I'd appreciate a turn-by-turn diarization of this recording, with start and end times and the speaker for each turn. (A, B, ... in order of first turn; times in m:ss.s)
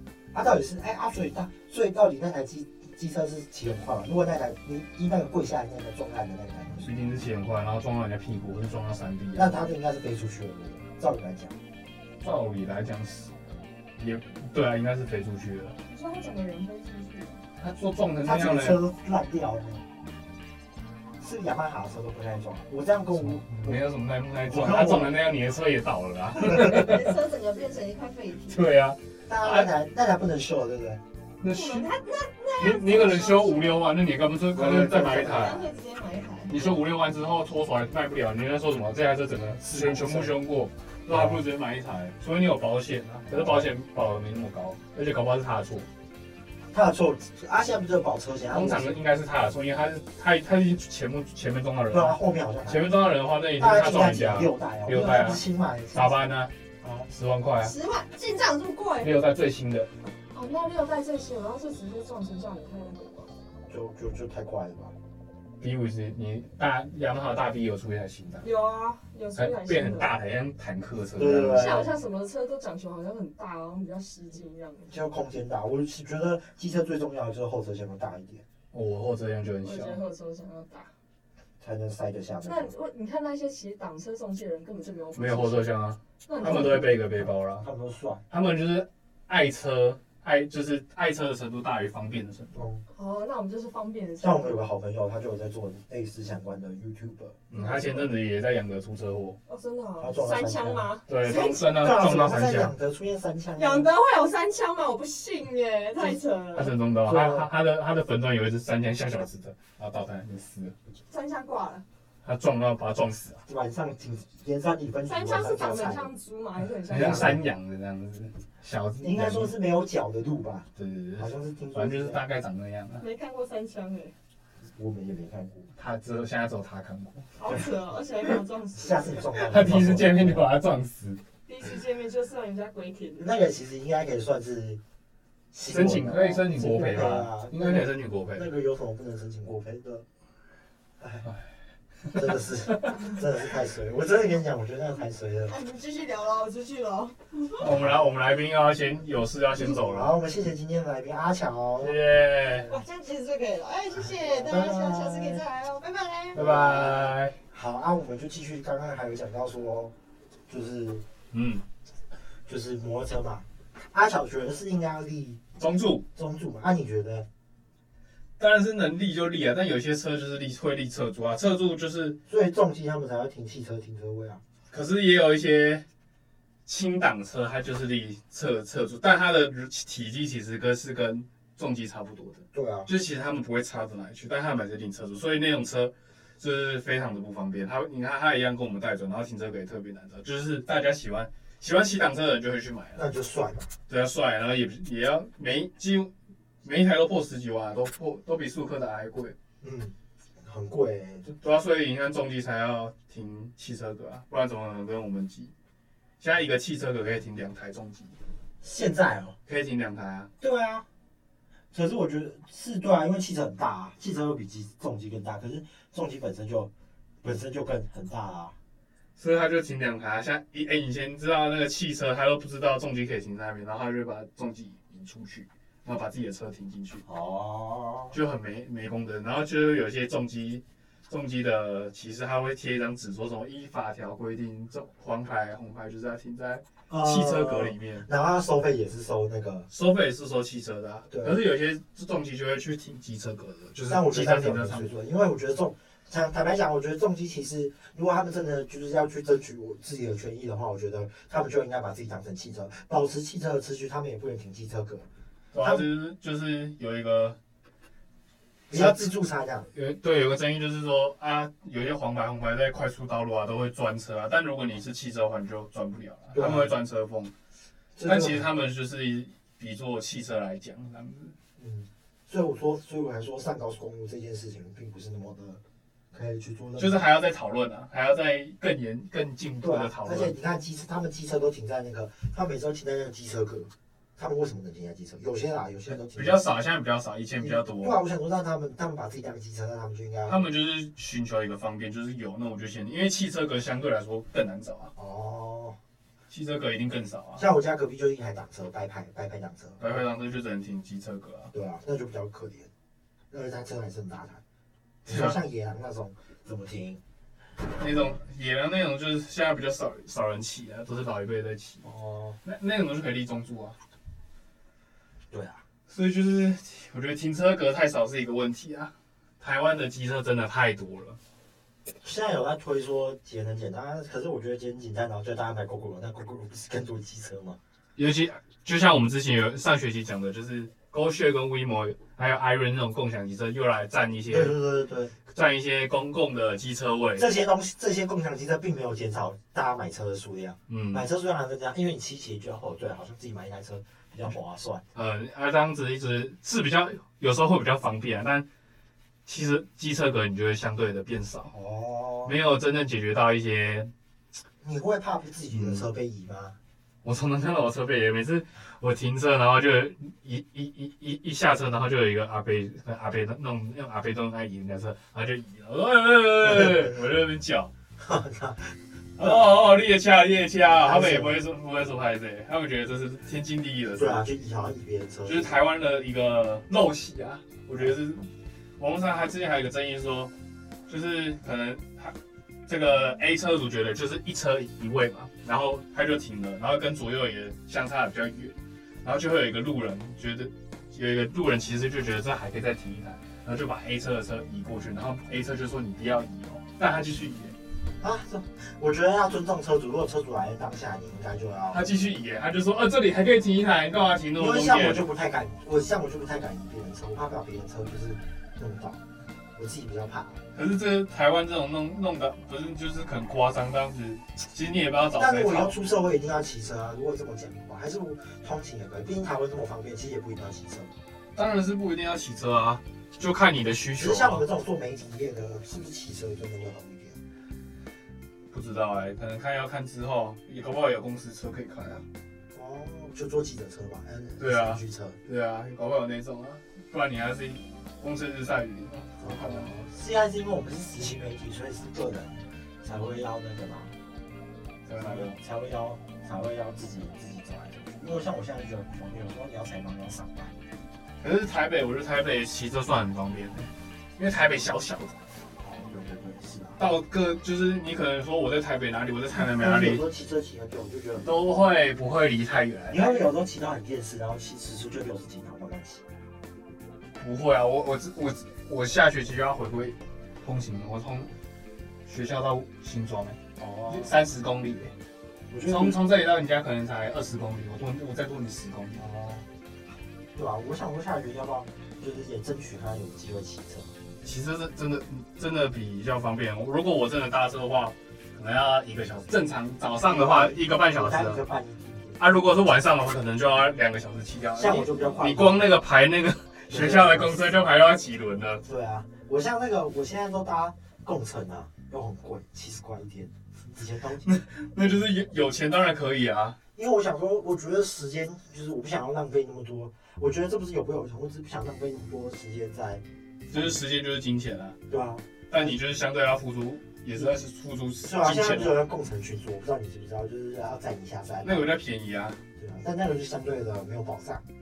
0:00.3-0:07.0 A
0:06.8-0:09.7 B
0:09.4-0:11.6 A
0:12.2-0:13.3 B
0:14.0-0:15.8 B
0:15.9-0:17.4 C
0:17.6-0:18.8 B
0:18.2-0:19.8 A
0:21.2-0:23.8 A
0:23.2-0:27.2 B
0:24.4-0:25.2 A
0:26.5-0:28.6 C
0:28.5-0:29.7 B
0:29.3-0:31.0 A
0:31.4-0:31.9 B
0:31.4-0:33.9 C
0:32.6-0:35.6 B
0:34.5-0:35.6 A
0:35.2-0:36.8 C
0:36.5-0:45.9 B
0:39.6-0:40.4 A
0:41.1-0:41.4 A
0:43.3-0:43.7 A
0:46.7-0:49.0 A
0:48.5-0:56.5 B
0:51.9-0:53.0 A
0:53.6-0:56.2 A
0:56.8-0:57.1 A
0:57.1-0:57.7 B
0:57.6-0:59.1 C
0:59.0-0:59.9 B
1:00.3-1:03.3 C
1:03.7-1:04.9 A
1:05.6-1:08.4 B
1:08.4-1:10.1 C
1:09.4-1:11.9 B
1:11.2-1:11.9 A
1:11.5-1:14.9 C
1:14.9-1:18.4 A
1:18.7-1:20.0 B
1:19.6-1:20.9 C
1:21.6-1:22.7 A
1:22.4-1:25.6 C
1:25.1-1:27.6 B
1:26.2-1:26.9 C
1:26.4-1:28.2 A
1:28.3-1:32.5 B
1:32.5-1:32.8 A
1:32.9-1:34.6 C
1:34.2-1:38.1 A
1:37.5-1:39.4 B
1:39.5-1:41.7 C
1:40.0-1:43.9 A
1:41.1-1:42.7 B
1:43.6-1:46.7 C
1:46.6-1:50.7 B
1:47.0-1:47.5 A
1:51.1-1:51.8 C
1:52.2-1:53.4 B
1:53.4-1:56.1 A
1:55.1-1:57.4 C
1:56.9-1:59.5 B
1:56.9-1:57.4 A
1:59.0-2:02.2 A
2:00.8-2:03.0 B
2:03.0-2:04.1 C
2:04.6-2:05.7 A
2:05.8-2:07.3 B
2:07.4-2:09.4 C
2:08.8-2:10.5 A
2:09.4-2:11.2 B
2:11.4-2:13.3 C
2:13.2-2:14.8 A
2:15.5-2:20.0 A
2:15.7-2:18.5 B
2:21.0-2:21.3 A
2:22.1-2:25.5 A
2:25.5-2:27.6 C
2:27.6-2:30.1 B
2:27.6-2:28.1 A
2:29.6-2:32.0 A
2:31.8-2:32.7 B
2:32.7-2:36.4 C
2:33.9-2:35.4 A
2:36.4-2:37.4 B
2:36.4-2:39.9 A
2:40.5-2:41.0 A
2:41.3-2:41.6 B
2:42.4-2:45.4 A
2:45.6-2:46.0 B
2:46.1-2:47.3 A
2:48.4-2:52.2 B
2:52.3-2:54.4 A
2:54.7-2:55.8 B
2:56.6-3:13.0 B
3:02.5-3:02.9 A
3:12.9-3:13.7 A
3:13.9-3:16.1 B
3:16.6-3:19.4 B
3:19.6-3:21.3 A
3:21.3-3:25.5 B
3:26.2-3:28.2 B
3:28.6-3:29.4 A
3:29.4-3:30.3 B
3:30.4-3:30.8 A
3:31.7-3:36.7 A
3:37.2-3:38.6 A
3:39.2-3:47.0 B
3:47.1-3:48.2 A
3:48.1-3:58.1 B
3:56.9-3:59.7 A
3:59.7-4:04.9 B
4:01.1-4:01.4 A
4:03.9-4:15.1 A
4:15.5-4:17.4 B
4:15.6-4:15.8 A
4:18.7-4:19.7 A
4:18.7-4:19.1 B
4:19.7-4:27.3 B
4:26.3-4:26.7 A
4:28.0-4:28.5 A
4:28.0-4:31.4 B
4:31.6-4:35.6 A
4:36.1-4:37.0 A
4:36.8-4:40.4 B
4:39.6-4:46.4 A
4:45.9-4:48.0 B
4:47.4-4:50.5 A
4:50.3-4:54.9 B
4:55.0-4:55.8 A
4:56.3-4:57.4 B
4:57.4-5:00.0 A
4:59.8-5:01.5 B
5:01.5-5:02.7 A
5:03.3-5:04.4 A
5:05.0-5:07.0 A
5:05.1-5:05.4 B
5:07.8-5:11.9 B
5:11.8-5:12.4 A
5:12.4-5:13.8 B
5:15.3-5:15.6 A
5:15.9-5:21.2 B
5:22.0-5:27.6 A
5:28.0-5:34.6 B
5:34.3-5:35.1 A
5:35.3-5:37.3 B
5:37.2-5:44.8 A
5:40.7-5:41.1 B
5:44.9-5:48.4 B
5:49.3-5:51.5 B
5:51.5-5:52.4 A
5:52.2-5:53.9 B
5:54.6-5:56.6 A
5:55.5-5:55.9 B
5:57.0-6:07.7 B
6:06.4-6:06.9 A
6:08.0-6:09.5 A
6:09.2-6:14.3 B
6:10.7-6:11.4 A
6:14.0-6:15.6 A
6:15.3-6:18.2 B
6:18.8-6:20.3 B
6:20.9-6:22.1 B
6:22.7-6:37.6 B
6:38.0-6:41.8 A
6:41.7-6:45.0 B
6:44.4-6:49.0 A
6:49.6-6:50.4 A
6:50.5-6:55.8 B
6:55.2-7:00.9 A
7:01.4-7:04.4 B
7:04.0-7:07.2 A
7:08.5-7:12.0 B
7:12.5-7:15.2 A
7:14.4-7:19.7 B
7:19.2-7:23.9 A
7:24.9-7:25.4 B
7:25.0-7:30.5 A
7:31.2-7:35.2 B
7:35.6-7:36.8 A
7:36.8-7:40.0 B
7:39.3-7:41.4 A
7:41.2-7:43.3 B
7:42.9-7:46.0 A
7:47.2-7:51.3 B
7:52.1-7:54.9 B
7:53.6-7:54.1 A
7:55.5-7:56.0 A
7:55.6-7:59.0 B
7:59.0-7:59.4 A
8:00.3-8:03.9 A
8:04.2-8:11.4 B
8:10.1-8:12.3 A
8:12.2-8:18.6 B
8:14.6-8:15.6 A
8:16.7-8:17.6 A
8:18.6-8:25.2 A
8:24.3-8:26.6 B
8:26.8-8:33.8 A
8:33.5-8:34.8 B
8:34.9-8:35.7 A
8:35.5-8:38.8 B
8:38.0-8:41.7 A
8:41.4-8:42.4 B
8:42.6-8:44.4 A